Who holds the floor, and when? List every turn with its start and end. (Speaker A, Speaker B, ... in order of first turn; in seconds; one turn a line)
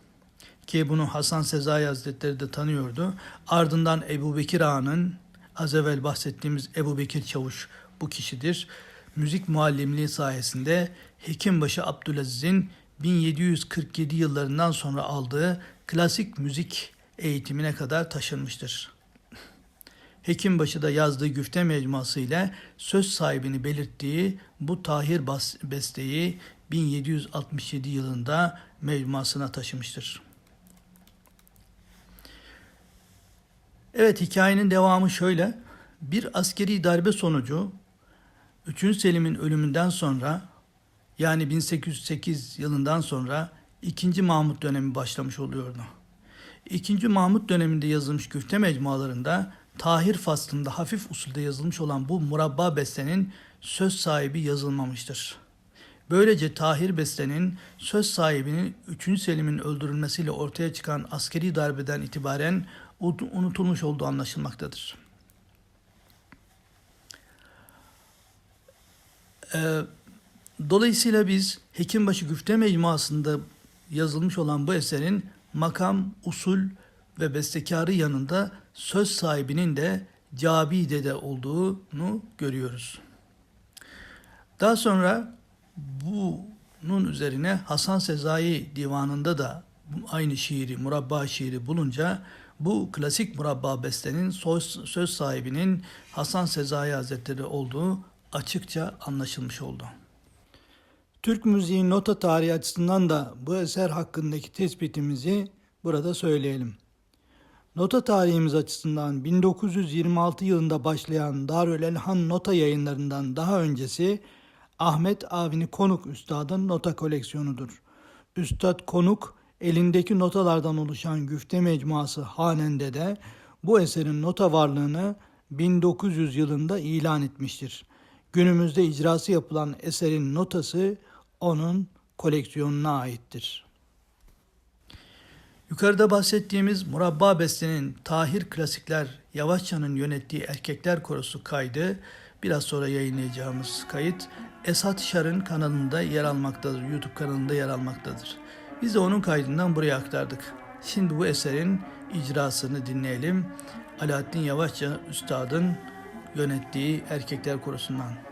Speaker A: 0.6-18.9
Speaker A: 20.2-30.2
Speaker A: 33.9-37.7
Speaker A: 38.6-40.4
Speaker A: 41.2-45.9
Speaker A: 46.6-55.4
Speaker A: 56.1-65.0
Speaker A: 69.5-69.9
Speaker A: 70.6-83.0
Speaker A: 84.6-99.9
Speaker A: 101.2-106.8
Speaker A: 107.7-114.2
Speaker A: 114.8-117.8
Speaker A: 118.3-133.7
Speaker A: 135.7-158.2